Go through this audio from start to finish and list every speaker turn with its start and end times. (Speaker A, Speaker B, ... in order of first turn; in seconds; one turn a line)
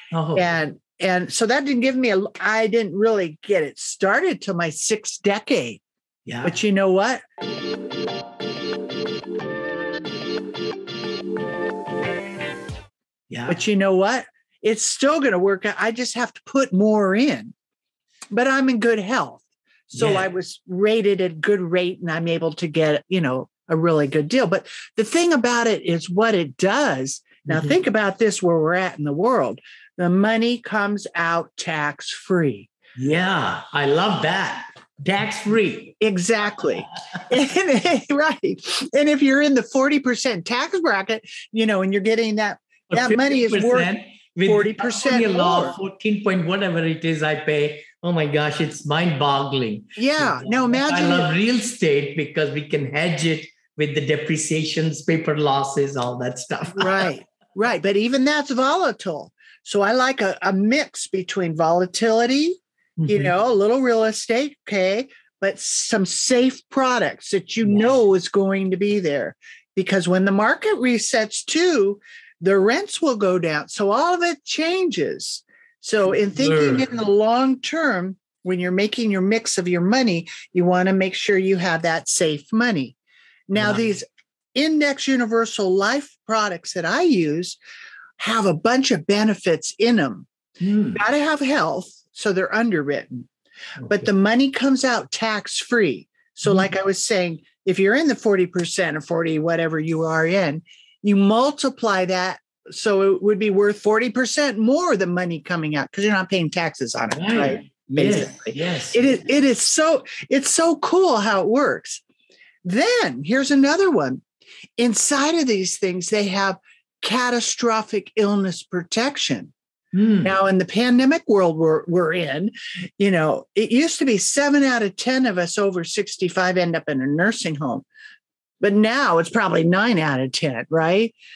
Speaker A: 0.1-0.5
Speaker B: 0.3-5.8
Speaker A: 6.3-6.5
Speaker B: 6.4-7.2
Speaker A: 13.3-13.6
Speaker B: 13.5-17.5
Speaker B: 18.3-32.7
Speaker A: 19.9-20.2
Speaker A: 27.4-27.8
Speaker A: 33.0-36.0
Speaker B: 36.0-43.9
Speaker A: 42.9-57.1
Speaker B: 44.4-45.7
Speaker B: 50.0-51.3
Speaker B: 56.8-83.0
Speaker A: 63.0-63.3
Speaker A: 67.6-67.9
Speaker A: 76.1-76.9
Speaker B: 83.5-87.6
Speaker A: 83.6-83.9
Speaker B: 88.2-90.3
Speaker A: 90.6-91.0
Speaker B: 90.9-93.3
Speaker A: 93.8-94.1
Speaker B: 93.9-112.0
Speaker A: 96.4-96.7
Speaker A: 107.1-109.1
Speaker B: 112.6-114.2
Speaker B: 114.8-119.5
Speaker A: 119.9-120.3
Speaker B: 120.2-127.8
Speaker B: 128.6-131.2